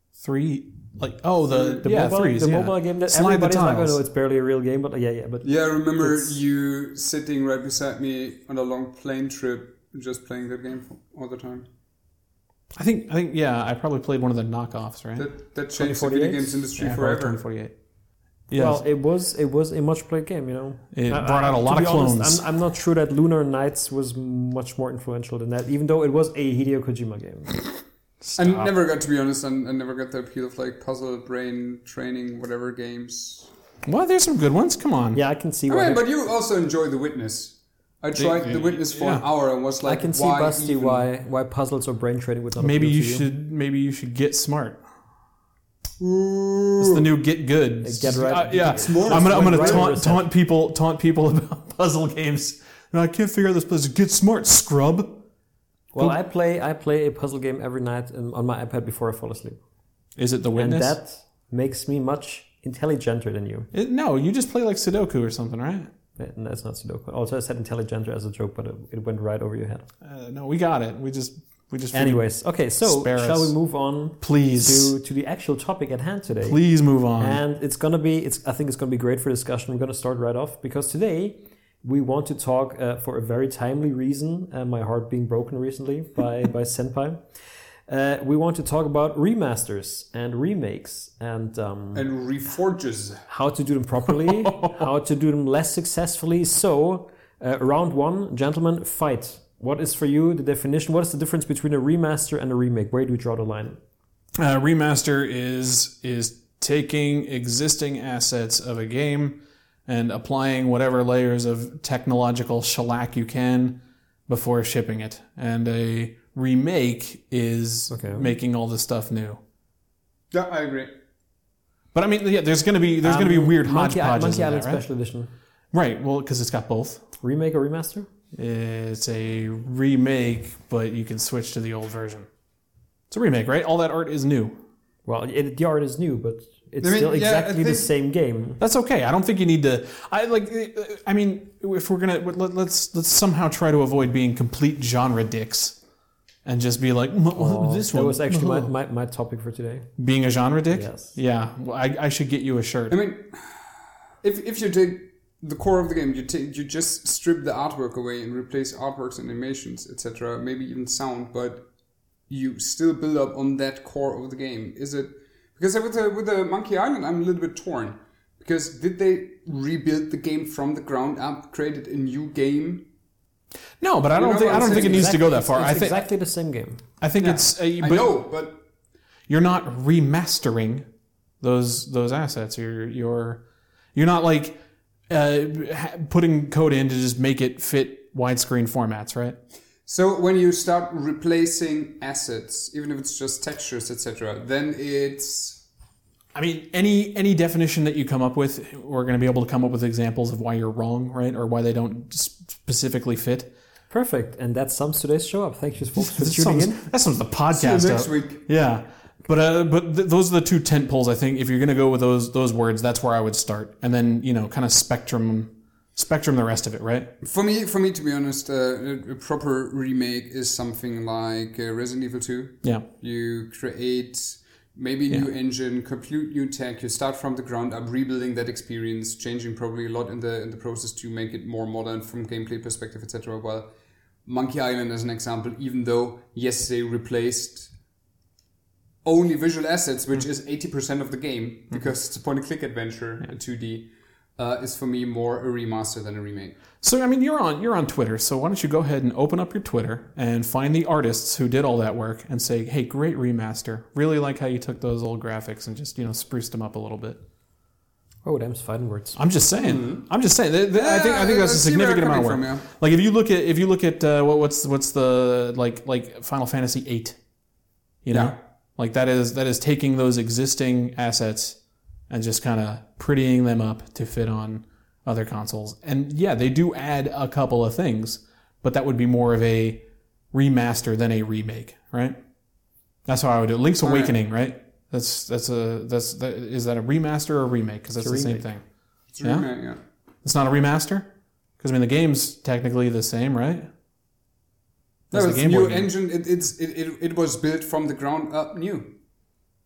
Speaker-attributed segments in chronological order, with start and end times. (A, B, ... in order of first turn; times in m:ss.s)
0:00.2-0:04.0 A
0:01.5-0:01.8 B
0:01.8-0:06.4 C
0:05.4-0:11.7 B
0:12.7-0:15.3 A
0:15.2-0:17.4 B
0:15.8-0:16.7 C
0:16.8-0:17.7 A
0:18.5-0:18.8 A
0:18.5-0:27.6 C
0:20.9-0:22.4 A
0:28.2-0:28.7 A
0:28.4-0:33.5 B
0:33.8-0:35.2 A
0:35.1-0:36.1 C
0:35.7-0:41.0 B
0:38.1-0:39.2 A
0:39.8-0:43.3 C
0:42.6-0:44.8 A
0:46.0-0:47.1 B
0:46.8-0:55.2 A
0:47.8-0:50.2 C
0:48.7-0:49.9 B
0:55.9-0:59.6 C
1:00.2-1:01.0 A
1:00.6-1:03.7 C
1:03.7-1:05.9 A
1:06.2-1:09.9 C
1:10.0-1:12.2 A
1:11.9-1:16.6 C
1:12.8-1:13.5 A
1:14.2-1:14.9 A
1:16.4-1:17.4 A
1:17.2-1:27.2 C
1:27.9-1:32.1 C
1:31.9-1:33.3 B
1:33.3-1:43.8 C
1:34.2-1:34.8 A
1:44.4-1:59.4 A
1:57.9-1:58.3 C
2:00.3-2:00.9 B
2:01.9-2:04.8 A
2:03.0-2:05.3 C
2:05.7-2:07.0 A
2:07.2-2:08.1 C
2:08.3-2:12.3 A
2:13.1-2:14.6 A
2:15.0-2:18.6 C
2:16.8-2:17.9 B
2:18.6-2:25.8 A
2:26.4-2:28.7 A
2:27.3-2:29.9 C
2:30.0-2:33.0 A
2:30.7-2:31.2 C
2:32.9-2:41.7 B
2:42.3-2:52.9 B
2:53.8-2:56.1 A
2:54.1-2:55.2 B
2:54.4-2:56.8 C
2:57.0-2:58.2 A
2:57.2-2:58.6 B
2:59.3-3:00.8 A
3:01.4-3:03.4 A
3:03.9-3:09.4 A
3:09.8-3:15.6 B
3:16.3-3:23.5 A
3:23.9-3:26.8 C
3:26.0-3:37.1 A
3:27.5-3:28.4 B
3:37.2-3:53.7 B
3:54.2-3:57.7 B
3:59.0-4:06.6 B
4:06.8-4:17.2 A
4:18.2-4:19.2 C
4:19.2-4:27.2 A
4:19.6-4:20.1 B
4:20.7-4:22.6 B
4:28.0-4:31.6 A
4:28.1-4:28.4 B
4:32.1-4:42.2 A
4:43.1-4:48.6 A
4:43.8-4:44.2 B
4:48.0-4:48.5 C
4:49.1-4:49.8 B
4:49.2-4:49.5 A
4:50.2-4:53.7 A
4:55.1-4:59.0 B
4:55.1-4:55.9 A